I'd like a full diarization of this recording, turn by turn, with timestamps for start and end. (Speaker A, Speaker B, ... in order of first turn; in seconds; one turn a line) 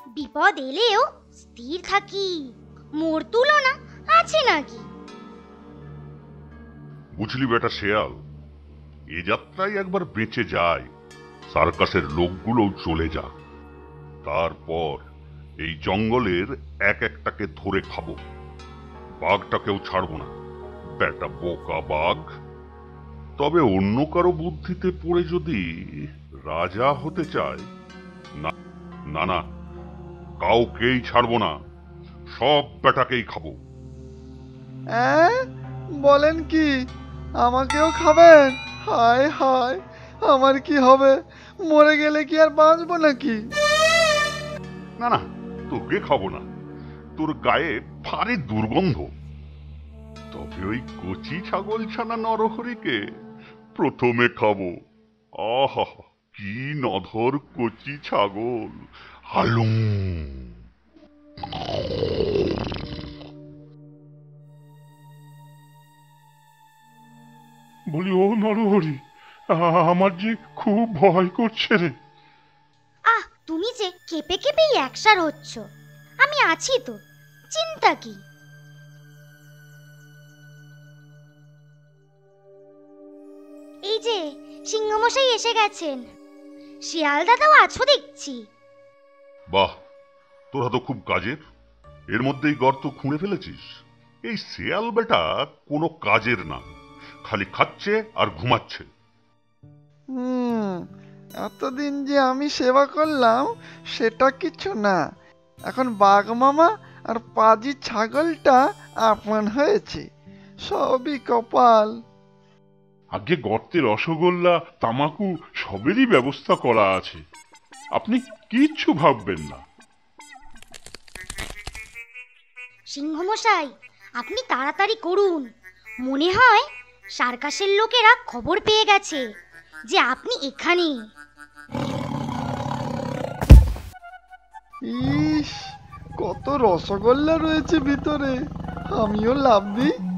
Speaker A: 0.2-4.9
Speaker B: 7.2-8.2
Speaker B: 9.1-10.9
Speaker B: 11.5-13.3
Speaker B: 14.2-15.1
Speaker B: 15.6-18.2
Speaker B: 19.2-20.3
Speaker B: 21.0-22.3
Speaker B: 23.4-27.7
Speaker B: 29.1-29.4
Speaker B: 30.4-31.6
Speaker B: 32.3-33.6
Speaker C: 35.0-35.4
Speaker C: 36.0-36.8
Speaker C: 37.4-43.4
Speaker B: 45.0-46.5
Speaker B: 47.2-49.1
Speaker B: 50.3-53.0
Speaker B: 53.8-54.8
Speaker B: 55.4-60.5
Speaker B: 61.4-62.7
Speaker D: 67.9-69.0
Speaker D: 69.5-72.0
Speaker A: 73.1-75.6
Speaker A: 76.2-77.0
Speaker A: 77.5-78.2
Speaker A: 83.9-86.0
Speaker A: 86.8-88.5
Speaker B: 90.5-91.4
Speaker B: 92.1-96.7
Speaker B: 97.2-98.9
Speaker C: 100.1-100.9
Speaker C: 101.4-105.0
Speaker C: 105.7-110.1
Speaker C: 110.7-111.9
Speaker D: 113.1-117.2
Speaker D: 118.0-119.6
Speaker A: 122.9-125.5
Speaker A: 126.0-126.7
Speaker A: 127.2-129.2
Speaker A: 129.9-131.0
Speaker C: 134.9-138.4
Speaker C: 138.9-139.9